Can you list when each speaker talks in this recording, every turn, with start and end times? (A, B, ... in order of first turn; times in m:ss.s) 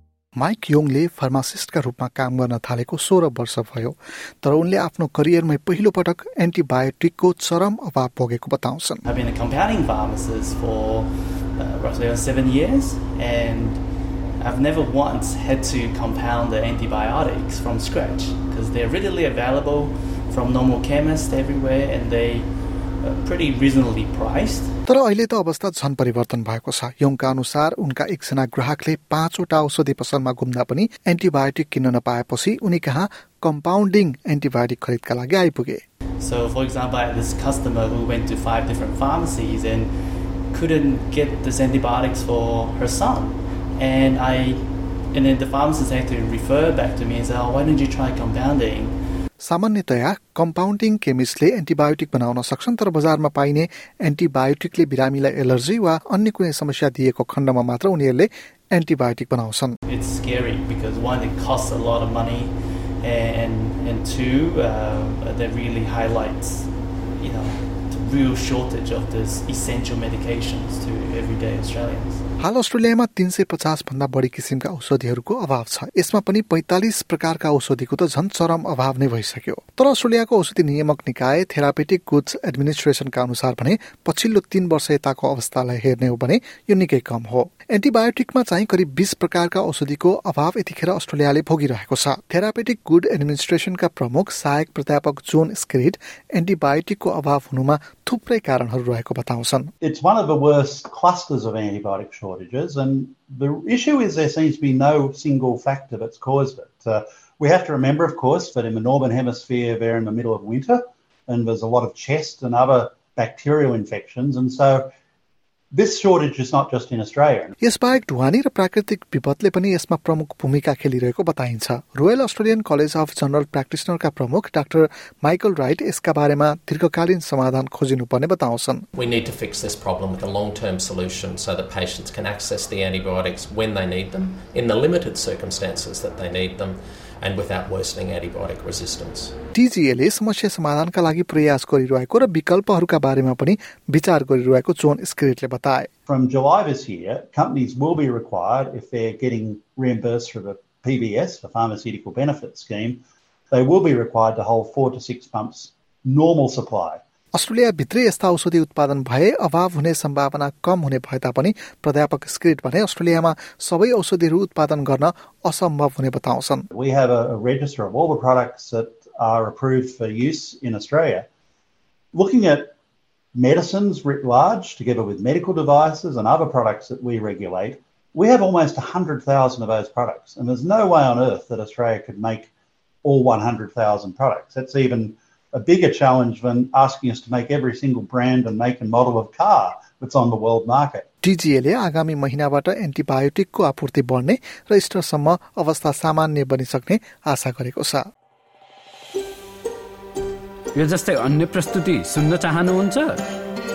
0:00.4-0:09.0 A
0:09.0-0:13.8 B
0:14.4-0:22.5 B
0:23.0-0:24.8 B
0:24.9-0:35.8 A
0:36.2-0:39.9 B
0:40.5-0:49.0 B
0:49.4-0:59.8 A
0:59.9-1:12.2 B
1:12.4-1:39.7 A
1:39.8-1:54.9 C
1:55.7-1:57.6 C
1:57.6-2:08.8 A
2:09.0-2:19.4 D
2:19.5-2:25.9 A
2:26.1-2:37.0 C
2:37.4-2:46.7 A
2:46.7-2:51.3 C
2:52.1-2:52.7 C
2:53.3-3:02.5 C
3:03.0-3:11.1 C
3:11.2-3:18.0 A
3:20.8-3:23.2 E